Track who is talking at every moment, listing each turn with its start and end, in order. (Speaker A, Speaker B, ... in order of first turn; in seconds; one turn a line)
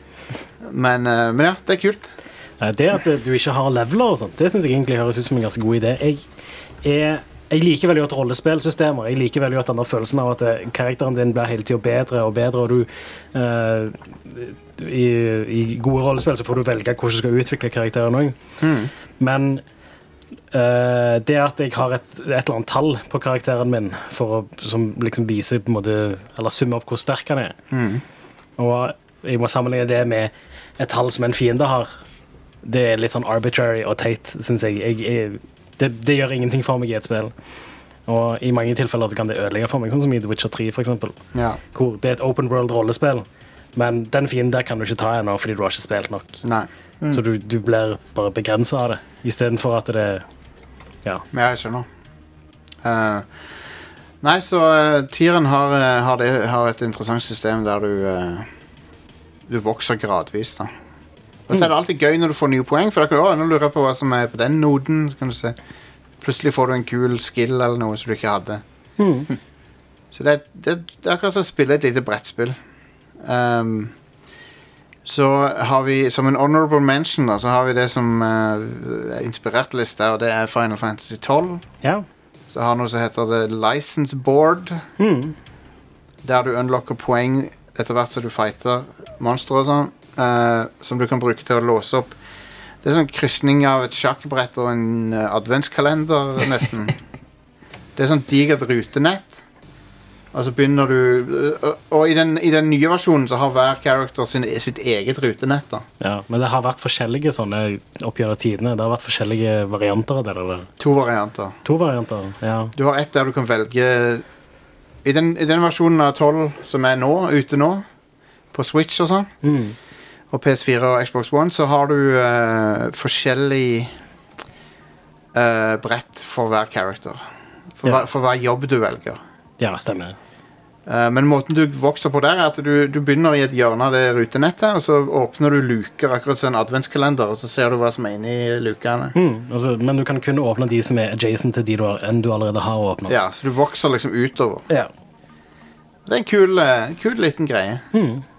Speaker A: 0.6-2.1
Speaker B: 2.6-6.2
Speaker B: 6.8-18.4
Speaker A: 18.6-18.9
Speaker B: 19.2-19.6
Speaker B: 20.5-27.6
Speaker A: 27.7-28.0
Speaker B: 28.6-31.9
Speaker B: 32.6-37.3
Speaker B: 38.1-41.2
Speaker A: 41.3-41.6
Speaker B: 41.7-46.4
Speaker A: 46.4-46.7
Speaker B: 47.1-50.2
Speaker A: 51.3-51.9
Speaker A: 52.8-53.3
Speaker A: 54.2-58.5
Speaker A: 59.5-60.7
Speaker A: 61.5-65.6
Speaker A: 66.2-68.6
Speaker B: 69.0-69.3
Speaker A: 70.1-72.6
Speaker A: 73.2-74.0
Speaker A: 75.0-81.6
Speaker A: 82.5-84.8
Speaker B: 85.0-85.3
Speaker A: 86.2-92.2
Speaker A: 92.8-97.0
Speaker A: 98.0-99.4
Speaker A: 100.3-105.8
Speaker B: 106.0-110.7
Speaker A: 110.8-111.6
Speaker B: 111.7-112.7
Speaker A: 112.8-114.2
Speaker A: 115.0-117.8
Speaker A: 118.5-119.3
Speaker B: 119.4-119.8
Speaker A: 120.3-123.9
Speaker A: 125.3-127.2
Speaker A: 127.8-129.2
Speaker B: 129.6-130.2
Speaker A: 130.9-139.1
Speaker B: 139.2-143.2
Speaker A: 143.1-144.7
Speaker A: 146.1-147.8
Speaker B: 147.9-148.2